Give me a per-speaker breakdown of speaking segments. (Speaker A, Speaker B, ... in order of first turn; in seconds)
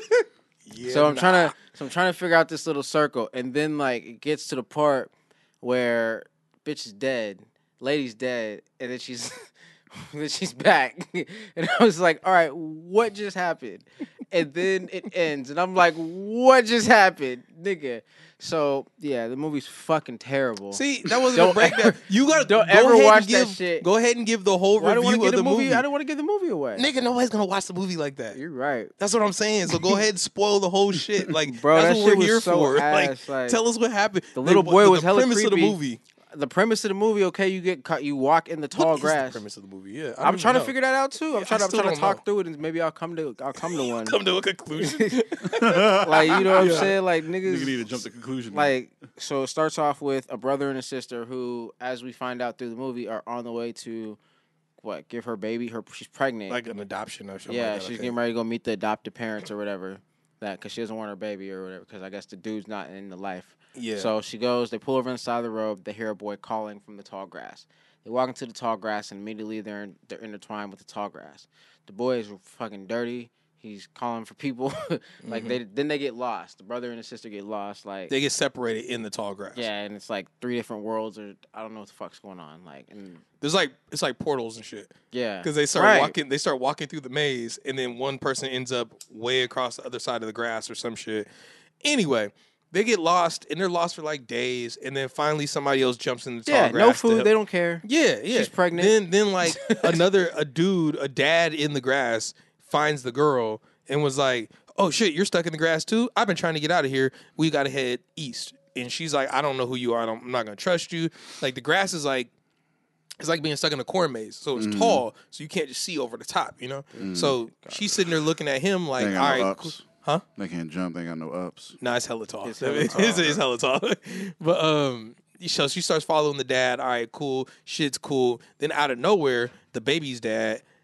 Speaker A: 0.2-1.6, 20.7-25.8, 26.8-28.4, 29.0-36.0, 38.8-40.7, 41.3-42.2, 43.6-46.9, 56.5-58.1, 63.8-64.1, 75.2-75.6, 78.1-79.7, 83.4-91.3, 91.8-97.3, 97.8-112.3, 113.2-120.2, 121.8-130.6
Speaker B: 0.8-23.9, 24.8-26.9, 28.3-28.9, 31.3-33.6, 34.4-35.8, 36.3-39.4, 40.2-44.2, 44.8-48.0, 48.5-54.2, 54.8-56.6, 57.5-78.1, 79.5-83.2, 85.1-86.2, 96.5-100.1, 116.9-118.0, 122.4-123.4
Speaker C: 45.5-48.7, 114.6-115.0, 117.0-117.4, 119.0-121.8